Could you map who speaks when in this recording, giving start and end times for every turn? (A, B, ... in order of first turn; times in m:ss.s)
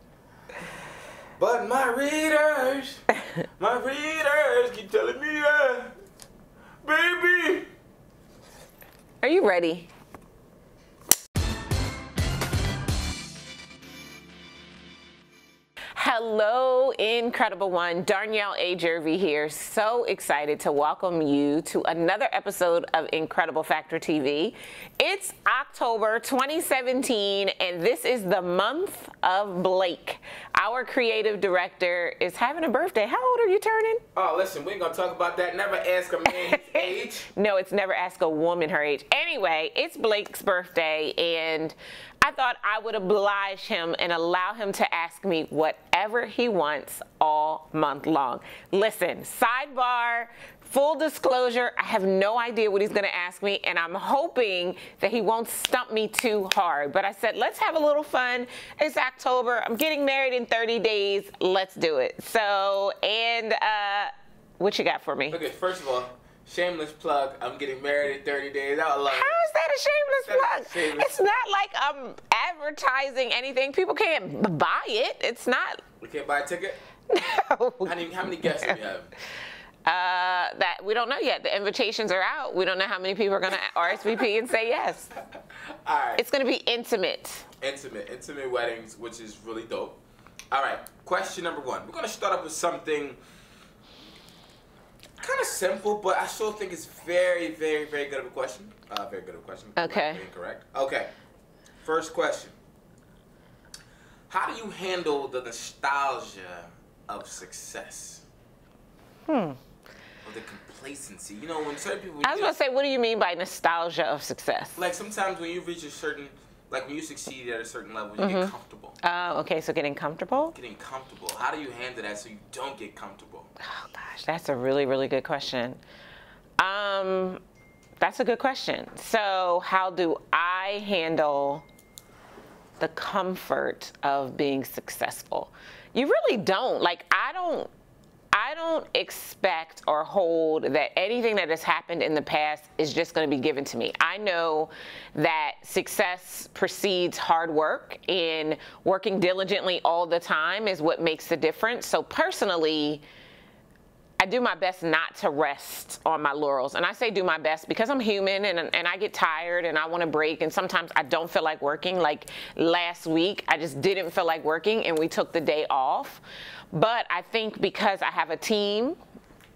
0:01.4-0:05.9 A
0:06.8-0:07.7 A
0:09.2-0:09.9 B
0:15.9-0:34.0 B
0:34.2-0:37.3 A
0:36.3-1:05.4 B
1:05.3-1:09.4 A
1:09.1-1:15.8 B
1:10.2-1:11.2 A
1:16.0-1:16.8 A
1:17.1-1:18.7 B
1:17.8-1:19.1 A
1:19.8-1:25.1 B
1:25.8-1:26.2 A
1:26.2-1:27.5 B
1:27.6-1:30.0 A
1:30.5-1:33.2 A
1:35.2-1:41.1 A
1:39.8-1:40.2 B
1:41.8-1:42.6 A
1:44.3-1:48.2 A
1:49.3-1:49.6 B
1:50.2-1:52.5 A
1:52.2-1:54.8 B
1:54.8-1:59.0 A
1:58.2-2:00.5 B
2:00.5-2:03.5 A
2:03.6-2:05.8 B
2:06.6-2:07.4 B
2:08.0-2:11.6 B
2:12.8-2:17.7 B
2:18.3-2:33.0 B
2:34.2-2:49.0 B